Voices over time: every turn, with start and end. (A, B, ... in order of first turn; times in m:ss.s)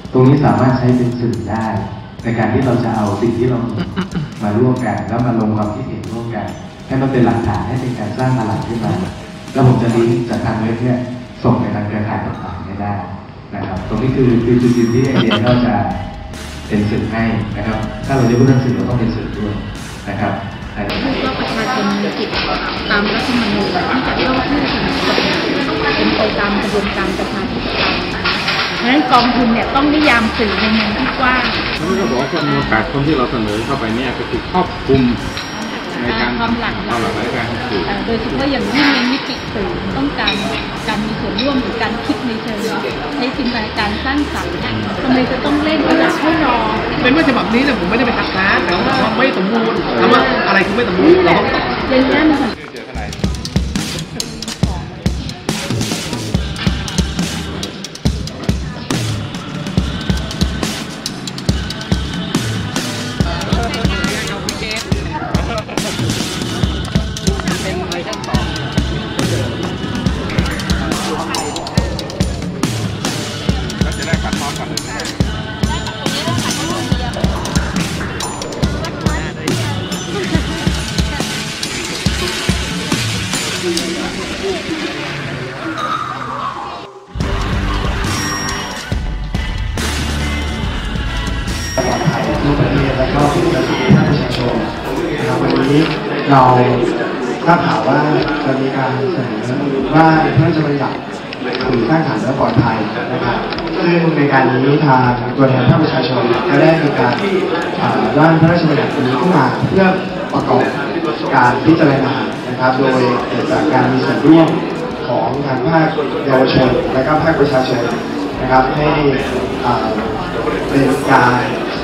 0:00.1-0:16.0 A
0:16.7-0:20.9 A
0:20.9-0:32.8 B
0:31.8-0:35.2 C
0:36.0-0:38.0 C
0:36.1-0:37.2 B
0:37.8-0:46.9 B
0:44.7-0:44.9 C
0:47.0-0:51.7 D
0:49.9-0:50.2 C
0:51.9-0:52.5 B
1:31.8-1:36.8 E
1:37.4-1:41.0 E
1:41.6-1:47.2 E
1:47.8-2:00.1 E
2:00.7-2:01.6 E